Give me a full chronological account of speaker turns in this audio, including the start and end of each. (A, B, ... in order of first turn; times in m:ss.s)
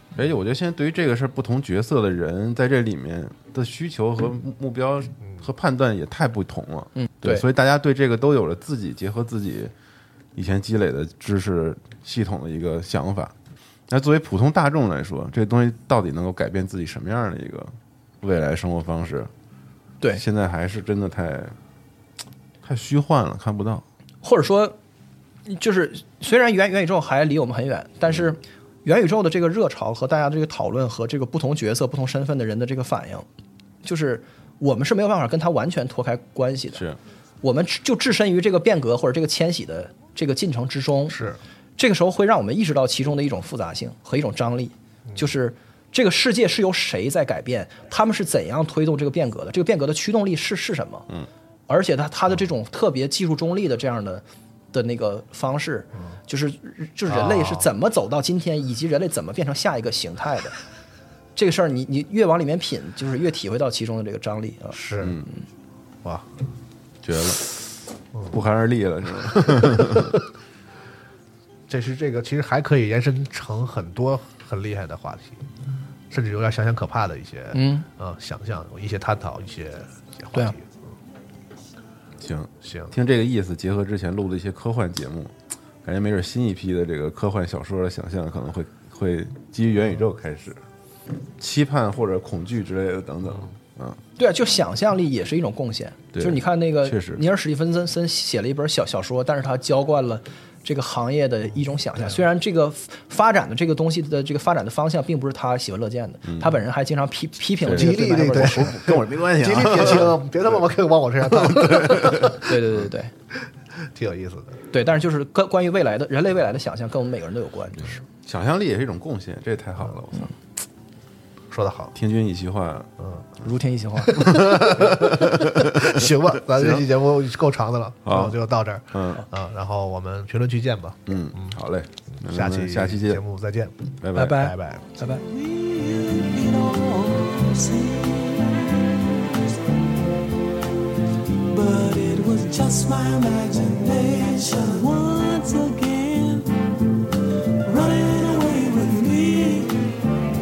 0:00.1-0:09.7 A
0:07.0-0:07.4 B
0:10.3-0:13.3 A
0:13.9-0:19.3 A
0:20.2-0:21.6 A
0:22.6-0:23.8 A
0:24.2-0:24.8 B
0:25.5-0:33.2 B
0:33.8-0:36.8 B
0:37.4-0:41.2 B
0:41.1-0:41.4 C
0:41.8-0:51.1 B
0:51.7-1:00.5 B
0:57.1-0:57.6 C
1:01.4-1:04.8 B
1:04.7-1:05.2 C
1:05.0-1:05.2 A
1:07.0-1:07.6 A
1:08.3-1:10.2 A
1:09.8-1:10.0 C
1:11.7-1:15.4 C
1:16.1-1:20.8 C
1:17.5-1:17.8 B
1:22.2-1:30.6 A
1:22.6-1:22.9 C
1:31.4-1:34.0 A
1:34.2-1:49.0 B
1:36.1-1:37.2 A
1:47.6-1:50.3 A
1:47.6-1:52.5 C
1:51.3-1:52.4 A
1:52.4-1:53.1 B
1:53.8-1:54.6 C
1:54.7-1:58.0 B
1:58.2-2:00.3 A
2:01.5-2:01.9 C
2:01.9-2:02.9 A
2:03.0-2:03.3 C
2:03.4-2:04.4 B
2:04.0-2:11.6 C
2:04.4-2:06.0 A
2:06.5-2:06.8 A
2:08.0-2:08.4 A
2:08.9-2:09.2 A
2:11.1-2:13.2 A
2:12.2-2:15.0 C
2:14.0-2:14.4 A
2:14.1-2:15.2 B
2:15.2-2:19.6 D
2:21.4-2:26.5 D
2:27.6-2:29.9 D